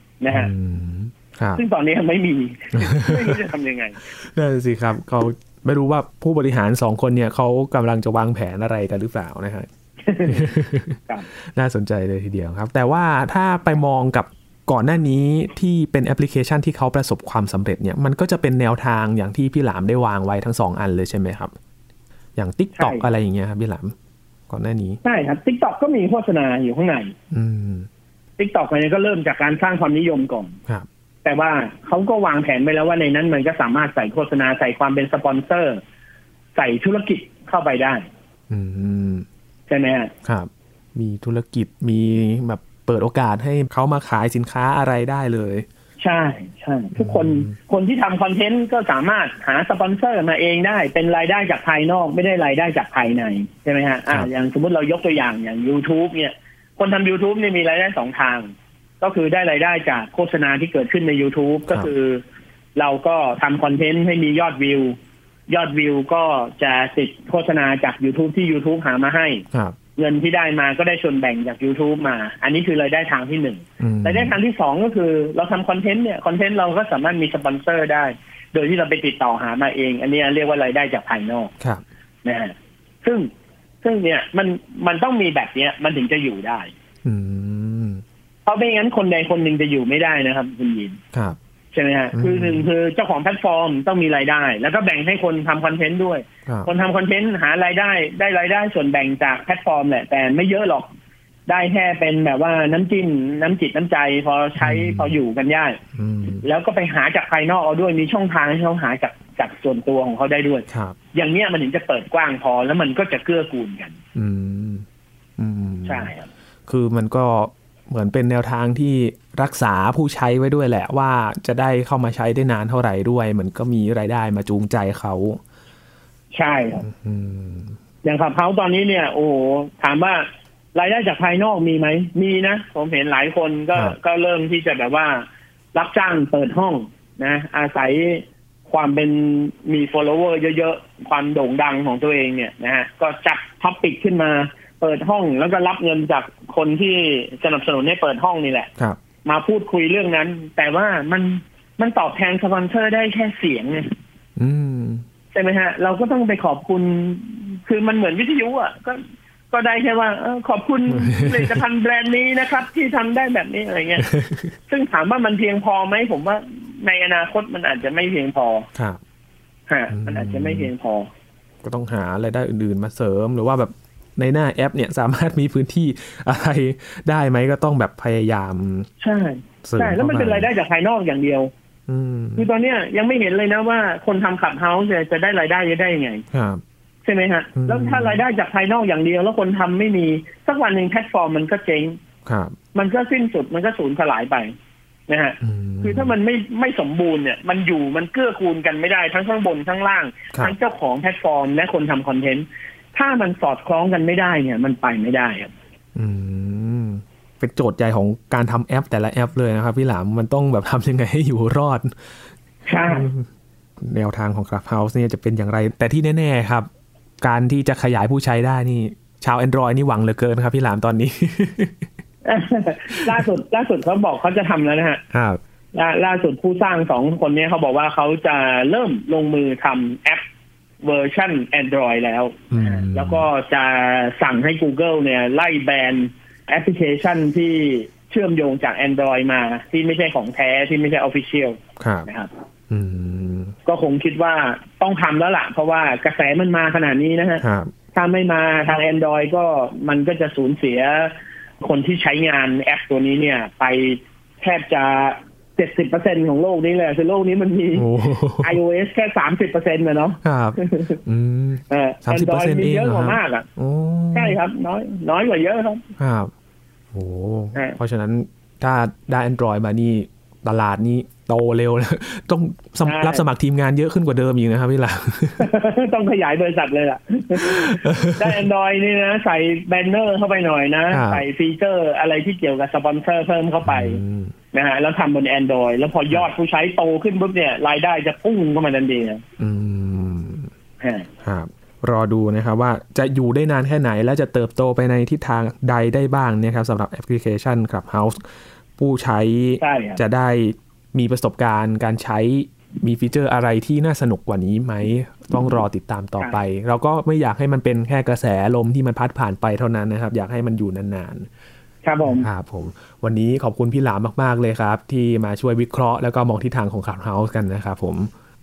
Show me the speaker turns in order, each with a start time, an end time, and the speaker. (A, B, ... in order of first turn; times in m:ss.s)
0:00.2-0:00.5 A
0:00.3-0:01.6 B
0:01.6-0:04.0 A
0:02.8-0:03.4 B
0:04.1-0:09.7 B
0:10.1-0:10.5 A
0:10.2-0:21.5 B
0:22.4-0:23.9 B
0:22.8-0:23.0 A
0:24.5-0:25.0 B
0:25.0-0:27.1 A
0:27.3-0:27.9 B
0:28.4-0:30.6 A
0:31.2-0:35.8 A
0:36.6-0:38.1 A
0:38.5-0:39.3 B
0:39.7-0:40.1 A
0:40.2-0:45.6 B
0:46.0-1:02.2 A
0:47.0-0:47.5 B
1:02.8-1:04.9 A
1:05.5-1:09.4 A
1:10.0-1:21.5 A
1:13.8-1:14.4 B
1:22.2-1:23.3 A
1:23.8-1:26.7 A
1:27.0-1:28.0 B
1:28.4-1:31.0 A
1:31.7-1:40.9 A
1:32.1-1:32.7 B
1:41.5-1:45.8 A
1:44.6-1:45.2 B
1:45.9-1:46.4 B
1:46.4-1:54.0 A
1:50.7-1:51.0 B
1:54.1-1:54.8 B
1:55.4-1:56.1 B
1:55.8-1:56.3 A
1:56.7-2:05.4 B
2:06.3-2:06.9 A
2:06.8-2:07.8 B
2:08.0-2:28.7 A
2:29.2-2:33.9 A
2:34.4-2:35.0 B
2:35.3-2:39.0 A
2:39.5-2:44.1 A
2:40.9-2:41.6 B
2:44.0-2:44.5 B
2:44.7-2:48.7 A
2:48.8-2:49.0 B
2:49.7-2:51.1 A
2:49.9-2:50.7 B
2:51.6-2:58.9 B
2:59.0-3:01.5 A
2:59.6-3:00.5 B
3:01.9-3:02.5 B
3:02.4-3:06.2 A
3:06.3-3:06.6 B
3:07.0-3:12.0 A
3:07.6-3:08.2 B
3:12.2-3:12.6 B
3:12.7-3:14.5 A
3:15.1-3:25.5 A
3:15.4-3:16.1 B
3:25.9-3:31.9 B
3:32.7-3:33.1 A
3:32.9-3:33.3 B
3:33.8-3:36.7 B
3:37.2-3:41.9 B
3:42.2-3:45.0 A
3:42.9-3:43.2 B
3:45.1-3:45.4 B
3:45.8-3:50.2 A
3:50.8-4:02.3 A
3:52.5-3:53.3 B
4:01.8-4:02.1 B
4:02.7-4:03.5 B
4:03.6-4:07.4 A
4:07.4-4:07.7 B
4:07.9-4:21.0 A
4:17.8-4:18.6 B
4:20.2-4:24.4 B
4:21.7-4:23.4 A
4:24.1-4:25.8 A
4:26.0-4:26.3 B
4:26.9-4:35.5 B
4:32.8-4:33.2 A
4:35.4-4:44.0 A
4:37.4-4:38.4 B
4:40.9-4:41.2 B
4:43.6-4:44.3 B
4:44.5-4:49.2 A
4:49.4-4:50.5 B
4:50.8-4:51.1 A
4:51.2-5:11.3 B
4:59.6-5:00.0 A
5:11.8-5:12.3 A
5:12.1-5:18.1 B